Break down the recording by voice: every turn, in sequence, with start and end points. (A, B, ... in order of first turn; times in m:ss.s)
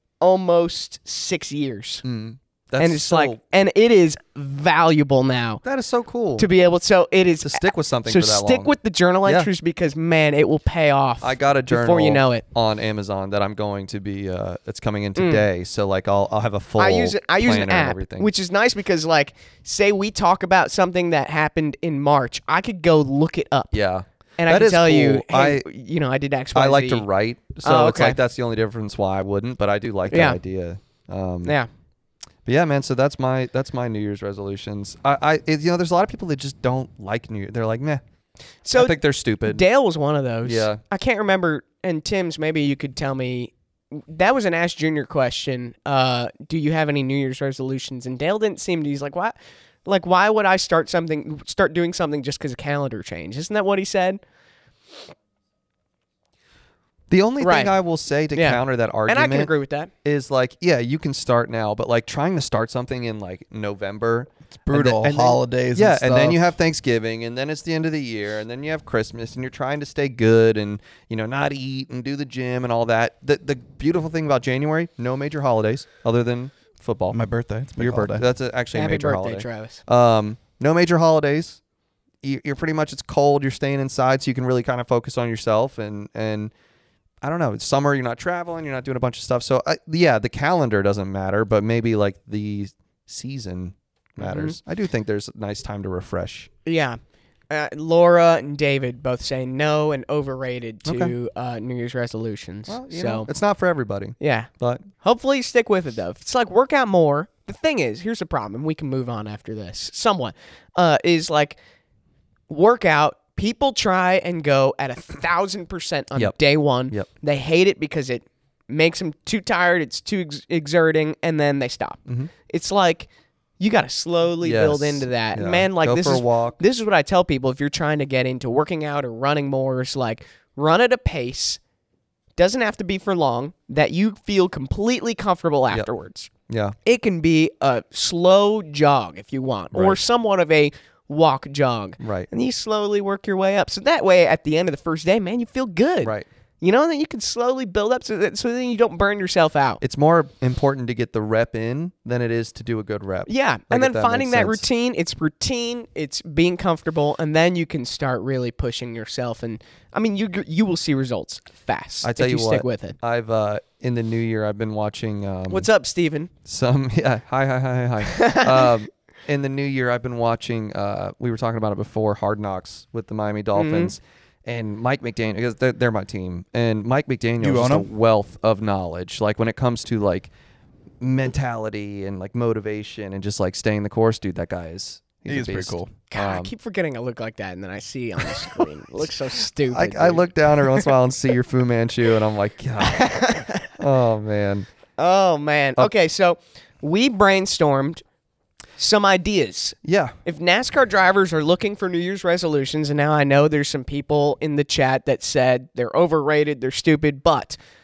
0:00.2-0:02.0 A
0:02.0-0:03.4 B
0:02.8-0:05.6 A
0:05.6-0:06.5 B
0:06.4-0:12.4 A
0:07.4-0:08.7 B
0:11.2-0:18.3 B
0:15.2-0:15.4 A
0:16.8-0:23.8 A
0:23.7-0:25.7 B
0:24.4-0:27.1 A
0:26.6-0:31.6 B
0:27.6-0:28.2 A
0:30.1-0:30.4 A
0:32.5-0:38.0 B
0:38.6-0:54.2 A
0:38.7-0:39.6 B
0:40.4-0:40.8 B
0:57.1-0:59.5 B
0:57.4-0:57.8 A
0:58.4-0:59.9 A
1:00.0-1:17.2 B
1:04.6-1:06.4 C
1:17.1-1:18.2 C
1:17.8-1:21.6 B
1:18.7-1:19.8 A
1:22.2-1:26.5 B
1:27.2-1:36.5 B
1:34.2-1:34.6 A
1:36.7-1:37.0 A
1:37.5-1:43.3 A
1:40.9-1:41.1 B
1:42.7-1:44.9 B
1:44.2-1:51.6 A
1:52.5-2:03.1 A
2:03.6-2:11.6 A
2:04.4-2:06.6 B
2:12.4-2:16.3 A
2:16.5-2:16.8 B
2:16.8-2:29.8 A
2:19.7-2:20.0 B
2:22.0-2:22.3 B
2:29.8-2:34.7 B
2:33.3-2:43.0 A
2:42.0-2:45.7 B
2:45.5-2:46.3 A
2:46.4-3:00.3 B
2:48.1-2:48.7 A
2:53.6-2:53.9 A
2:57.4-2:57.9 C
3:01.0-3:06.5 B
3:05.3-3:05.9 C
3:06.1-3:10.9 A
3:09.7-3:14.7 B
3:12.8-3:13.7 A
3:15.0-3:18.0 A
3:18.8-3:27.6 A
3:19.8-3:20.2 B